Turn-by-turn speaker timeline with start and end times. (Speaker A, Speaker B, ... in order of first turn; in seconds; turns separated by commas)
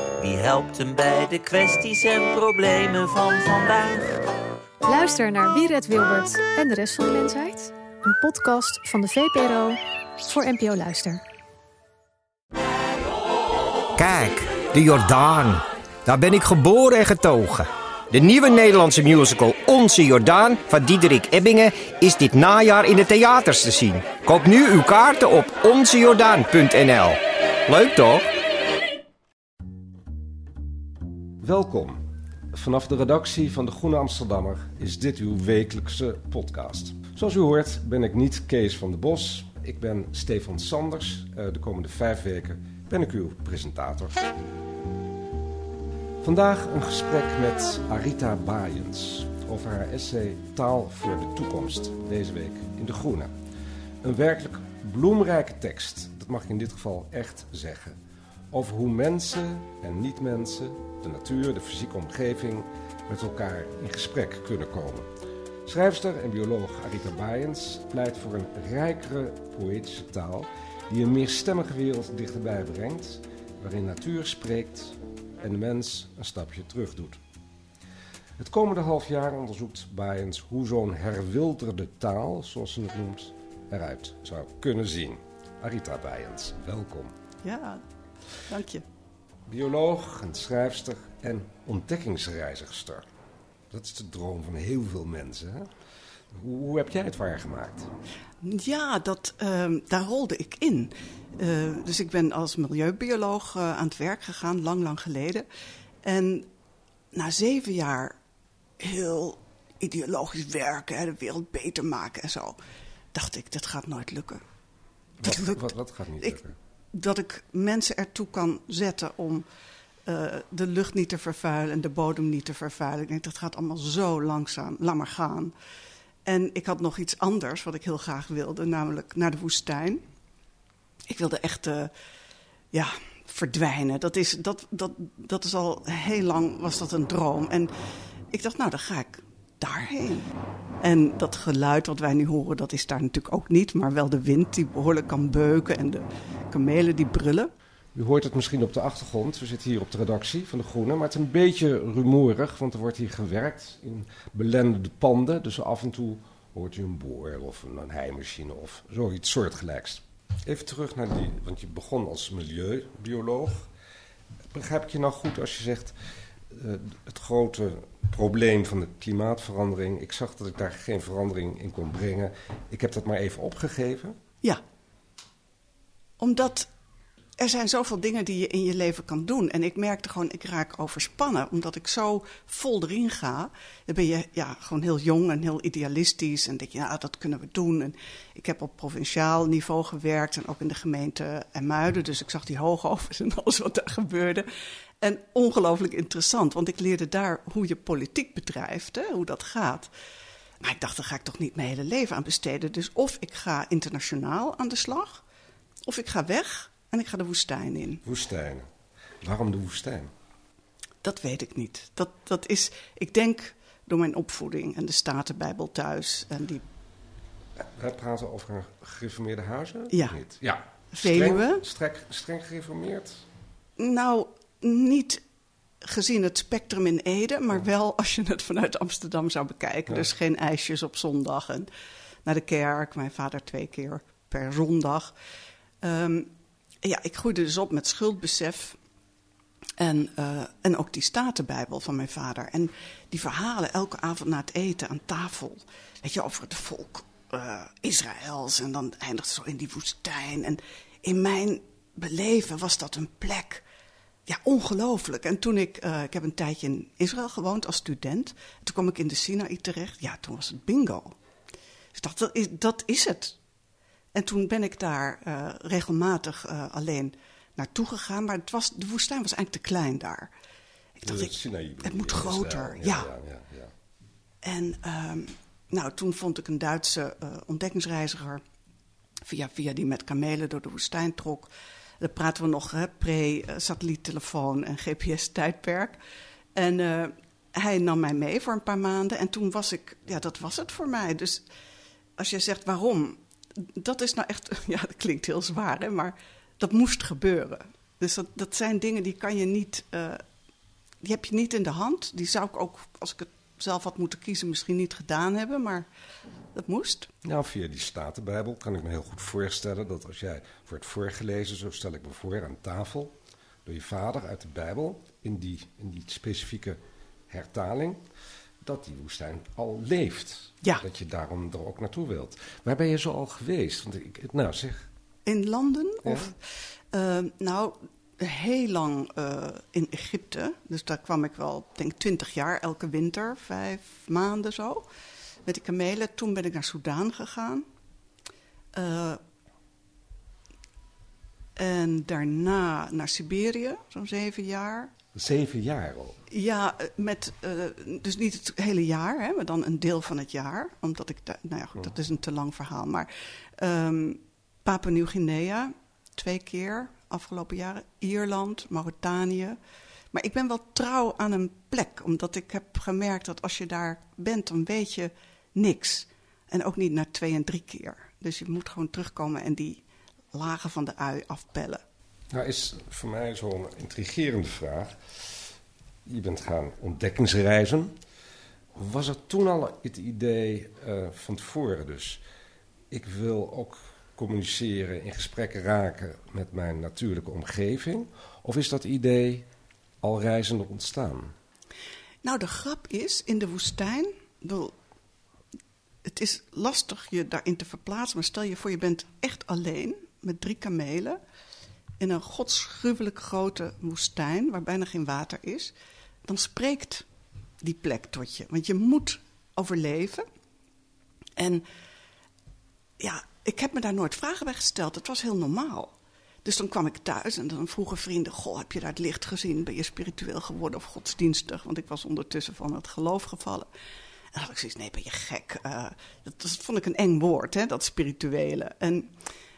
Speaker A: 0.2-4.2, Speaker B: 4.8-11.2, Speaker C: 14.0-28.3, Speaker D: 31.4-32.0, Speaker D: 32.5-44.3, Speaker D: 46.2-53.3, Speaker D: 54.0-58.0, Speaker D: 58.5-65.1, Speaker D: 65.7-77.2, Speaker D: 78.4-87.1, Speaker E: 87.4-87.8, Speaker E: 88.5-88.8, Speaker D: 89.5-93.1, Speaker D: 93.7-95.7, Speaker D: 96.3-97.9, Speaker E: 98.4-105.5, Speaker E: 106.0-106.5, Speaker E: 107.1-108.2, Speaker E: 108.8-112.6, Speaker E: 113.1-114.4, Speaker D: 115.2-116.6, Speaker E: 115.2-115.7, Speaker E: 116.9-119.5, Speaker E: 120.1-125.5, Speaker E: 126.3-130.0, Speaker E: 131.1-131.9, Speaker E: 132.7-137.7, Speaker E: 138.3-147.5, Speaker D: 147.9-163.7, Speaker D: 164.5-165.9, Speaker D: 166.5-174.2, Speaker E: 176.2-176.7, Speaker E: 177.4-194.5, Speaker E: 195.0-199.9, Speaker E: 200.6-205.2, Speaker E: 205.9-208.0, Speaker D: 208.1-208.7, Speaker D: 209.2-210.1, Speaker E: 211.0-216.6, Speaker D: 217.6-223.2, Speaker E: 219.9-220.2, Speaker E: 220.9-221.6, Speaker E: 223.8-225.2, Speaker E: 225.8-231.7, Speaker E: 232.3-235.1, Speaker E: 235.8-236.3, Speaker E: 236.8-238.8, Speaker E: 239.8-253.6, Speaker E: 254.3-261.2, Speaker E: 261.9-263.4, Speaker E: 264.1-270.3, Speaker E: 271.0-273.1, Speaker D: 271.0-273.7, Speaker E: 274.4-278.4, Speaker E: 279.2-286.0, Speaker E: 286.6-291.5, Speaker E: 292.2-300.2, Speaker E: 301.0-305.9, Speaker E: 306.5-307.1, Speaker D: 307.2-318.0, Speaker D: 318.6-324.9, Speaker E: 325.3-326.4, Speaker D: 326.1-326.3, Speaker E: 326.9-334.9, Speaker E: 335.5-337.6, Speaker E: 338.8-339.2, Speaker E: 341.6-344.9, Speaker D: 345.1-346.2, Speaker E: 346.3-359.6, Speaker E: 360.1-371.8, Speaker D: 372.3-375.0, Speaker D: 376.1-378.0, Speaker D: 378.8-382.2, Speaker D: 382.9-389.5, Speaker D: 390.0-391.3, Speaker E: 392.2-394.7, Speaker E: 396.1-401.2, Speaker E: 402.0-405.7, Speaker E: 406.3-407.1, Speaker E: 407.6-410.2, Speaker E: 411.4-411.6, Speaker E: 413.0-415.9, Speaker E: 416.4-423.7, Speaker E: 424.3-429.1